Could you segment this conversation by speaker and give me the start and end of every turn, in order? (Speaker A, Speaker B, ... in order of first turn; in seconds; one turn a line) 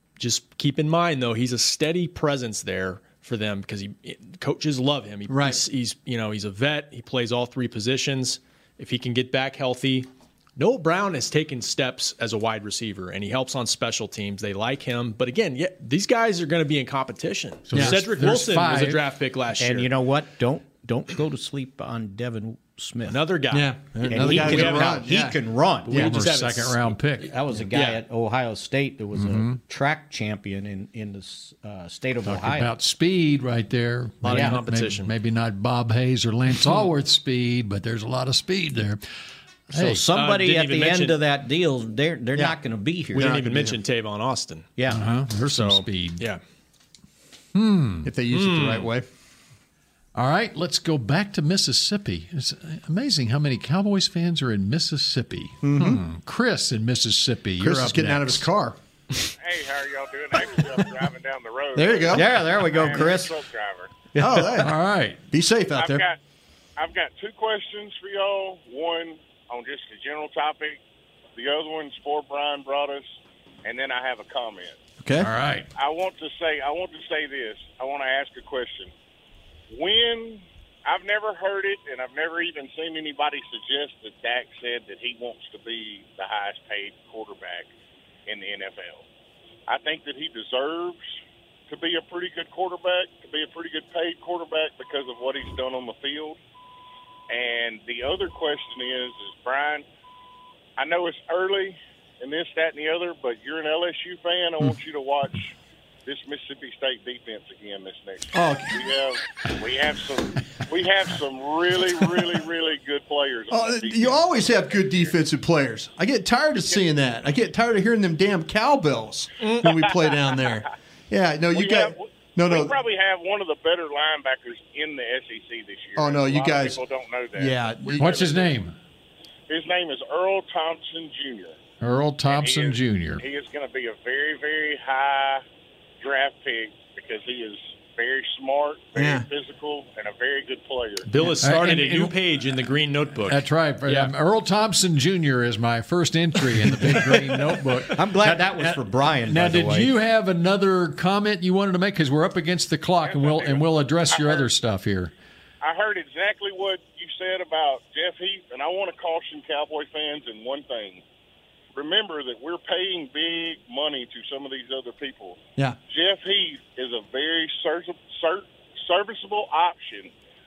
Speaker A: 0.2-19.9
Speaker B: 5.3-5.6
Speaker C: 17.7-19.0
Speaker B: 17.7-18.0
Speaker D: 19.6-23.2
Speaker A: 23.1-25.0
Speaker B: 23.5-25.4
Speaker D: 24.1-26.2
Speaker A: 25.9-27.0
Speaker C: 25.9-27.3
Speaker D: 27.2-32.7
Speaker A: 27.7-28.0
Speaker C: 29.2-29.6
Speaker C: 32.3-39.0
Speaker A: 34.2-35.1
Speaker D: 34.3-34.6
Speaker C: 39.7-40.0
Speaker D: 39.7-43.5
Speaker A: 40.1-41.2
Speaker B: 43.1-43.8
Speaker A: 43.1-44.7
Speaker D: 44.8-45.1
Speaker C: 44.9-46.2
Speaker A: 45.4-46.4
Speaker C: 47.5-48.1
Speaker B: 48.0-49.0
Speaker A: 48.3-48.9
Speaker C: 50.1-58.5
Speaker B: 55.6-56.0
Speaker B: 57.6-58.8
Speaker E: 59.4-64.0
Speaker B: 61.8-62.4
Speaker D: 62.1-63.3
Speaker B: 64.2-64.8
Speaker C: 64.2-65.2
Speaker B: 65.3-66.0
Speaker E: 65.8-66.2
Speaker E: 66.8-70.8
Speaker E: 71.3-73.1
Speaker E: 73.6-74.8
Speaker B: 75.0-75.3
Speaker C: 75.2-75.7
Speaker E: 75.8-78.9
Speaker E: 79.7-87.7
Speaker E: 88.3-89.0
Speaker E: 89.7-91.0
Speaker E: 91.7-96.4
Speaker E: 97.3-99.8
Speaker E: 100.8-105.5
Speaker E: 106.0-115.0
Speaker B: 108.3-108.8
Speaker B: 113.5-122.7
Speaker E: 119.6-120.4
Speaker E: 121.5-128.5
Speaker B: 126.0-126.8
Speaker B: 127.3-128.3
Speaker C: 128.0-128.8
Speaker E: 129.5-131.6
Speaker C: 131.8-133.2
Speaker E: 132.3-135.4
Speaker E: 136.0-141.1
Speaker B: 139.0-139.2
Speaker A: 141.1-144.1
Speaker C: 141.4-142.2
Speaker C: 143.2-155.1
Speaker D: 147.9-149.9
Speaker E: 153.0-154.5
Speaker E: 155.6-161.0
Speaker E: 161.7-170.1